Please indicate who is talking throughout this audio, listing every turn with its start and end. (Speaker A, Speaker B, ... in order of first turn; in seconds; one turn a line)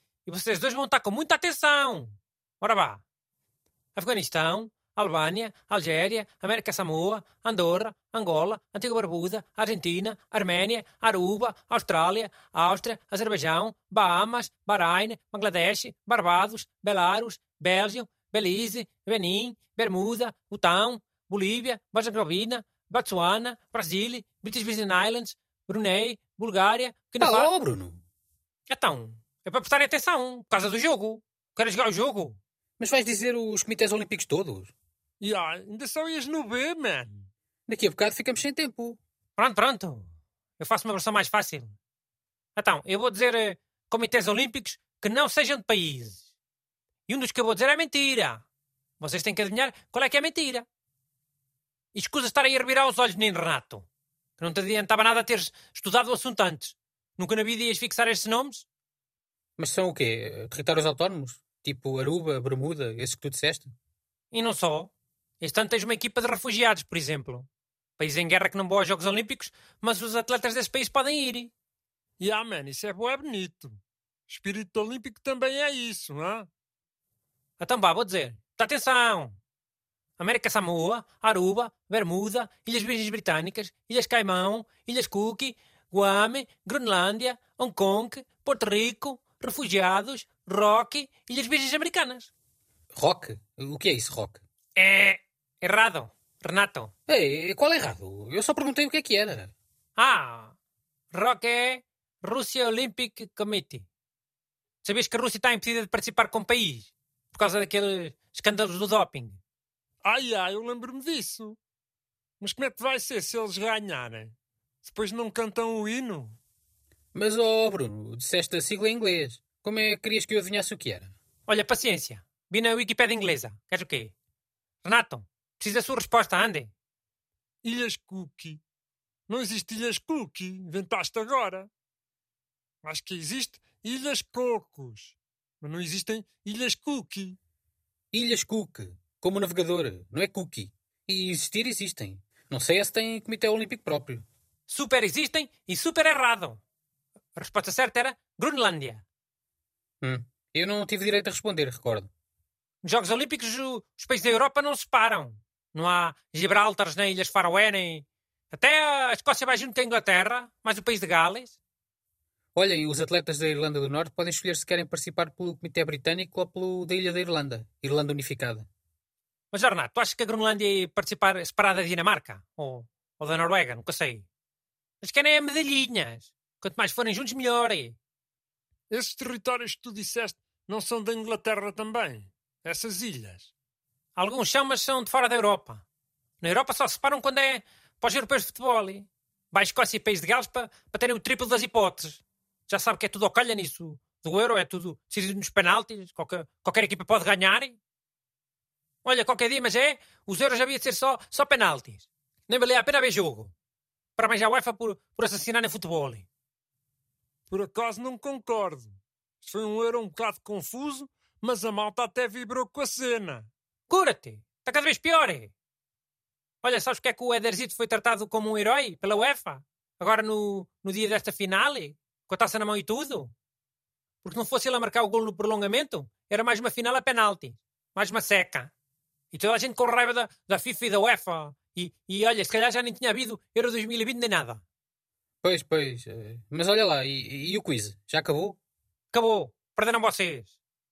Speaker A: 0.3-3.0
Speaker A: 4.0-27.5
Speaker B: 27.2-28.0
Speaker A: 28.7-32.4
Speaker B: 32.8-34.7
Speaker C: 35.2-37.3
Speaker B: 37.7-39.0
Speaker A: 39.4-41.8
Speaker A: 42.6-46.3
Speaker A: 47.1-48.4
Speaker A: 49.0-50.7
Speaker A: 51.9-58.7
Speaker B: 59.6-63.7
Speaker A: 64.3-71.5
Speaker C: 72.2-76.5
Speaker A: 77.6-79.4
Speaker A: 80.2-92.3
Speaker B: 93.0-94.4
Speaker A: 94.8-96.9
Speaker B: 97.1-99.5
Speaker A: 100.0-100.5
Speaker A: 101.1-103.9
Speaker A: 104.8-109.4
Speaker C: 110.0-111.6
Speaker C: 112.4-116.4
Speaker B: 117.1-121.1
Speaker A: 121.5-124.1
Speaker A: 124.8-126.7
Speaker C: 127.6-128.6
Speaker C: 129.3-131.7
Speaker C: 132.8-137.4
Speaker B: 138.1-144.2
Speaker A: 144.7-146.6
Speaker A: 147.3-149.1
Speaker B: 150.0-152.1
Speaker A: 152.8-161.6
Speaker B: 162.6-168.7
Speaker A: 169.5-174.3
Speaker A: 175.0-178.0
Speaker C: 178.9-183.5
Speaker A: 184.2-185.8
Speaker A: 186.4-197.8
Speaker A: 199.0-203.5
Speaker A: 204.2-206.3
Speaker C: 207.5-213.5
Speaker A: 213.9-215.5
Speaker A: 216.6-223.3
Speaker A: 224.2-228.7
Speaker A: 229.3-234.6
Speaker B: 235.4-238.6
Speaker A: 239.1-240.5